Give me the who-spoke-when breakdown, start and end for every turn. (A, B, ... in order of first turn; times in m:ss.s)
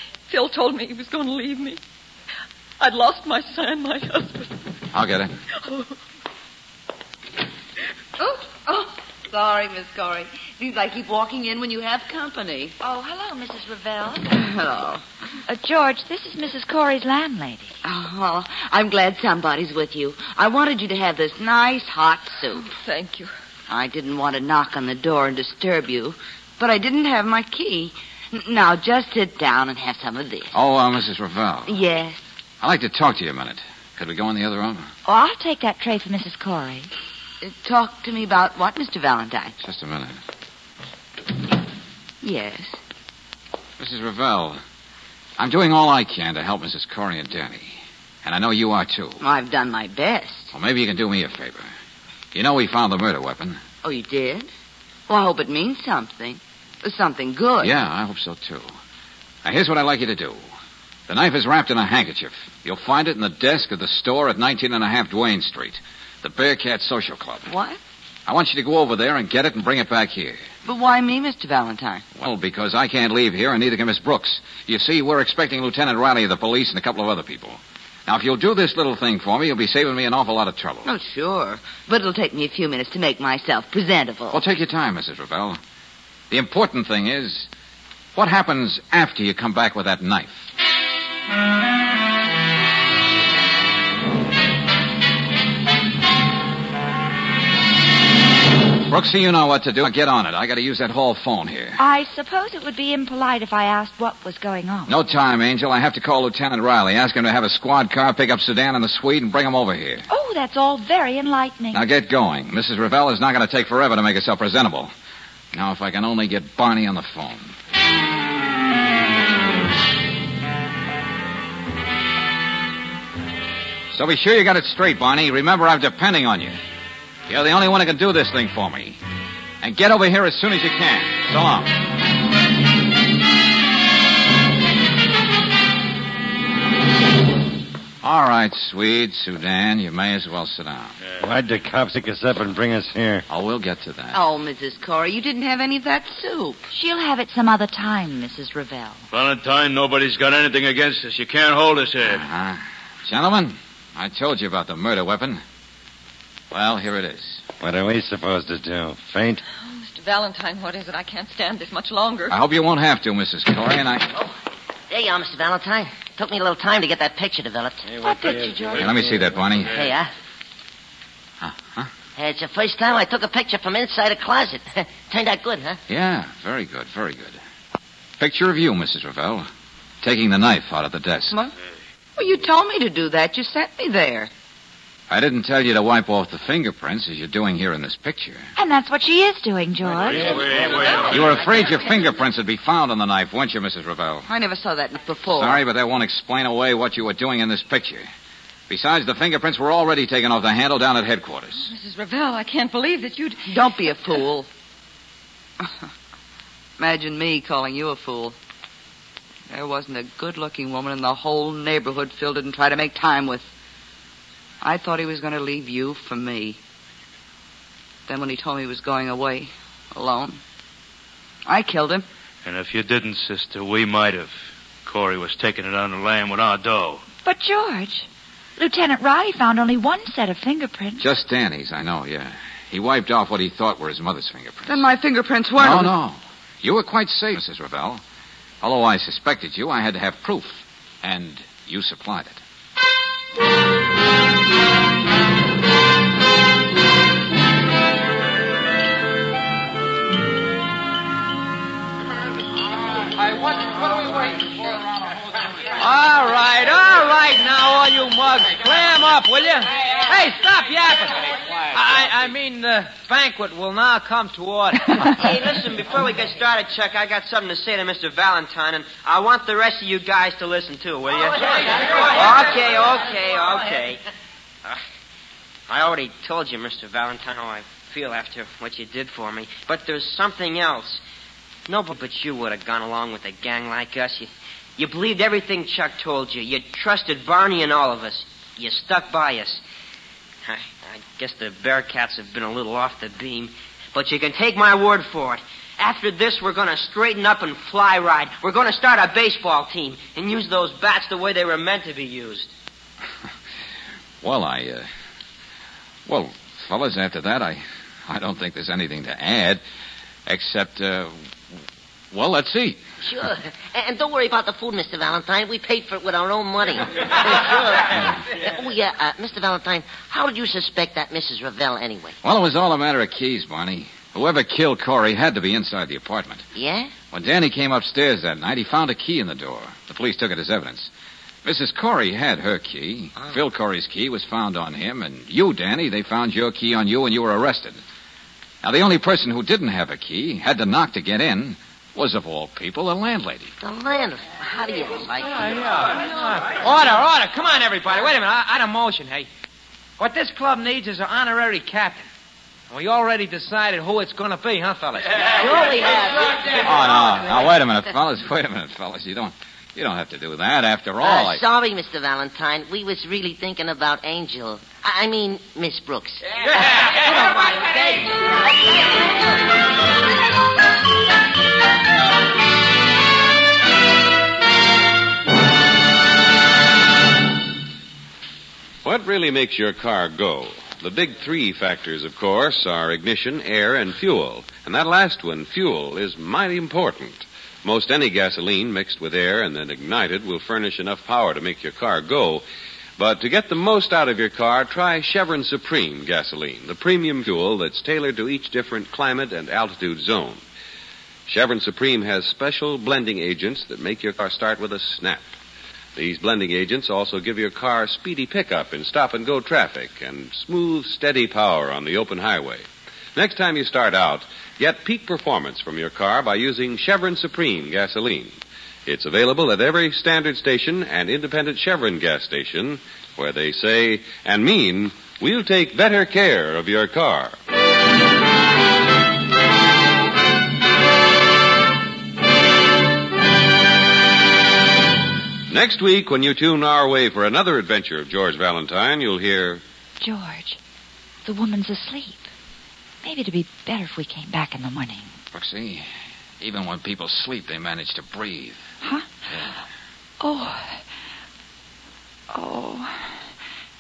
0:00.3-0:01.8 A
0:02.8-0:04.5 A
0:04.9-0:05.4 B
0:05.6-0:06.0 A
0:08.2-0:12.8 C
0:12.8-0:14.4 D
0:14.3-0:15.0 C
0:15.5-0:17.7 D
0:17.8-0:22.7 C
0:22.6-0:23.3 A
0:23.7-0:30.6 C
0:30.5-0:31.8 B
0:31.7-0:32.2 C
0:32.6-0:34.9 B
0:35.1-0:36.9 D
0:37.4-0:39.6 C
0:39.6-0:40.2 B
0:42.2-0:42.8 C
0:43.8-0:44.6 B
0:45.4-0:49.2 B
0:49.2-0:50.5 C
0:50.5-0:51.7 B
0:52.3-0:53.6 B
0:53.8-0:54.5 C
0:55.1-0:57.7 C
0:57.6-0:58.7 B
0:59.4-1:00.5 B
1:01.1-1:07.5 B
1:07.5-1:07.8 C
1:08.3-1:10.5 B
1:10.6-1:12.0 C
1:12.2-1:20.9 B
1:20.8-1:24.4 C
1:24.3-1:25.6 B
1:26.3-1:27.5 B
1:28.2-1:30.5 B
1:38.9-1:41.8 B
1:41.8-1:44.9 D
1:44.9-1:50.1 B
1:50.1-1:51.8 D
1:51.7-1:54.9 B
1:55.5-1:57.5 B
2:03.9-2:06.6 B
2:07.3-2:09.0 B
2:09.6-2:11.8 B
2:18.0-2:20.9 B
2:21.2-2:23.2 E
2:23.3-2:24.2 B
2:24.1-2:26.6 C
2:26.7-2:29.0 D
2:29.1-2:32.2 F
2:32.0-2:35.4 B
2:36.5-2:37.4 B
2:37.6-2:39.4 E
2:39.6-2:42.4 A
2:42.3-2:44.1 B
2:44.9-2:47.9 G
2:48.0-2:48.9 D
2:48.8-2:49.8 B
2:49.7-2:50.1 G
2:51.4-2:51.9 B
2:52.2-2:55.8 G
2:55.9-2:57.4 B
2:58.2-2:59.5 B
3:00.0-3:01.4 B
3:02.2-3:04.3 C
3:05.1-3:08.5 B
3:08.6-3:10.4 D
3:11.0-3:14.3 B
3:14.3-3:15.6 C
3:15.3-3:18.1 B
3:18.7-3:21.7 B
3:21.6-3:23.8 A
3:23.5-3:24.5 C
3:26.8-3:28.4 C
3:29.5-3:33.5 C
3:34.6-3:36.6 C
3:38.1-3:40.4 C
3:41.5-3:42.0 C
3:42.4-3:44.3 F
3:44.9-3:47.0 F
3:47.2-3:51.0 D
3:51.0-3:54.8 B
3:54.7-3:56.0 C
3:55.6-3:58.0 B
3:58.6-4:02.4 B
4:15.8-4:25.1 H
4:25.1-4:34.0 I
4:35.7-4:41.0 I
4:41.7-4:49.6 I
4:50.5-5:02.5 I
5:04.2-5:04.9 B
5:06.1-5:09.6 B
5:10.3-5:11.3 B
5:12.1-5:12.8 B
5:13.0-5:22.2 G
5:22.2-5:26.5 B
5:26.6-5:26.9 G
5:27.1-5:30.9 B
5:31.4-5:37.8 B
5:38.6-5:43.5 B
5:43.6-5:45.4 G
5:45.7-5:49.3 H
5:50.0-5:52.1 H
5:52.7-5:55.3 H
5:55.4-5:56.6 G
5:56.6-6:01.4 B
6:01.0-6:06.4 G
6:18.8-6:32.4 J
6:33.0-6:40.4 J
6:41.3-6:45.3 J
6:46.0-7:07.4 J
7:15.5-7:19.6 J
7:20.0-7:20.6 D
7:21.2-7:22.3 D
7:23.0-7:25.1 D
7:25.3-7:25.9 B
7:26.4-7:28.6 B
7:28.8-7:29.1 D
7:30.2-7:30.8 D
7:32.3-7:33.1 D